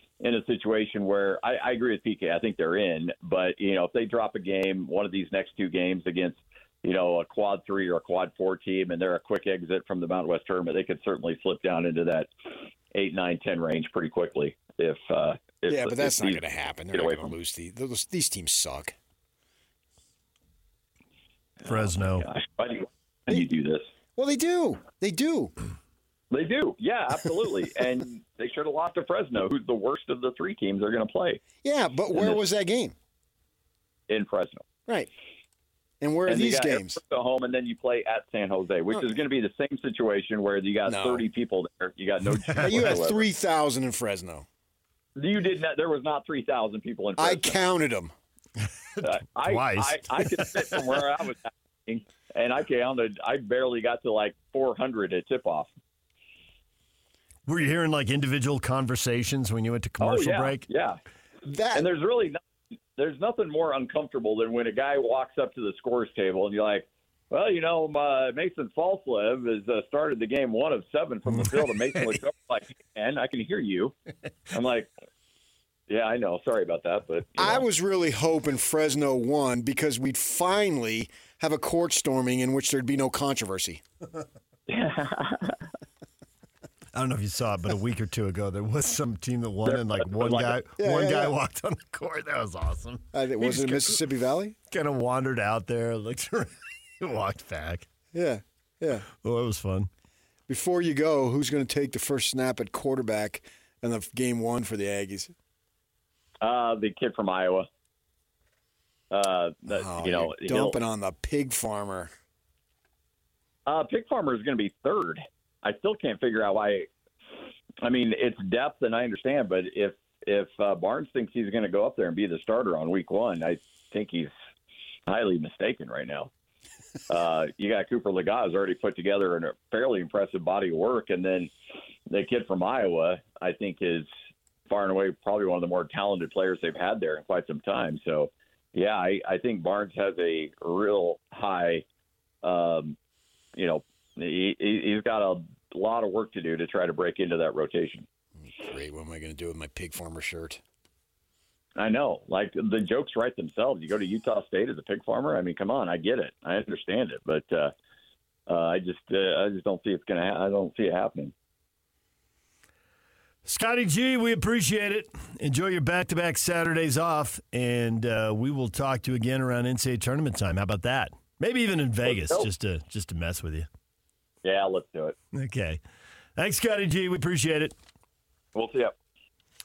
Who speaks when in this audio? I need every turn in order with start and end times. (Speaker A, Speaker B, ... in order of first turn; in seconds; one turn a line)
Speaker A: 0.2-17.3
Speaker B: 15.7-18.9
Speaker A: 21.6-23.8
Speaker C: 21.6-22.3
Speaker B: 24.2-25.5
Speaker A: 26.3-31.4
Speaker B: 31.6-32.9
Speaker A: 32.1-32.4
Speaker A: 34.1-34.6
Speaker B: 36.0-37.0
Speaker A: 36.3-43.2
Speaker B: 40.9-41.2
Speaker C: 42.5-42.9
Speaker B: 42.6-44.5
Speaker A: 45.1-47.6
Speaker B: 47.2-48.1
Speaker C: 48.9-50.8
Speaker A: 49.0-55.7
Speaker C: 57.5-60.6
Speaker A: 60.0-61.0
Speaker B: 61.4-61.9
Speaker A: 61.7-62.4
Speaker A: 63.0-73.9
Speaker C: 71.3-72.1
Speaker A: 74.5-74.9
Speaker A: 75.9-77.6
Speaker B: 77.4-83.8
Speaker A: 84.7-85.6
Speaker C: 86.9-94.0
Speaker A: 89.6-90.6
Speaker B: 90.8-91.3
Speaker B: 93.1-94.5
Speaker C: 94.7-97.9
Speaker B: 98.1-99.0
Speaker C: 99.2-99.9
Speaker B: 100.5-105.3
Speaker A: 106.4-107.7
Speaker A: 109.1-110.8
Speaker B: 109.7-112.1
Speaker A: 113.7-116.9
Speaker A: 117.8-124.3
Speaker A: 125.1-126.3
Speaker A: 127.1-131.5
Speaker A: 132.1-134.1
Speaker A: 134.7-141.8
Speaker A: 142.4-142.9
Speaker A: 143.6-148.1
Speaker B: 148.4-150.6
Speaker A: 151.8-157.7
Speaker A: 158.5-161.3
Speaker C: 163.4-173.7
Speaker A: 172.1-172.5
Speaker A: 174.4-175.2
Speaker C: 175.3-175.8
Speaker C: 176.3-177.7
Speaker A: 178.5-178.9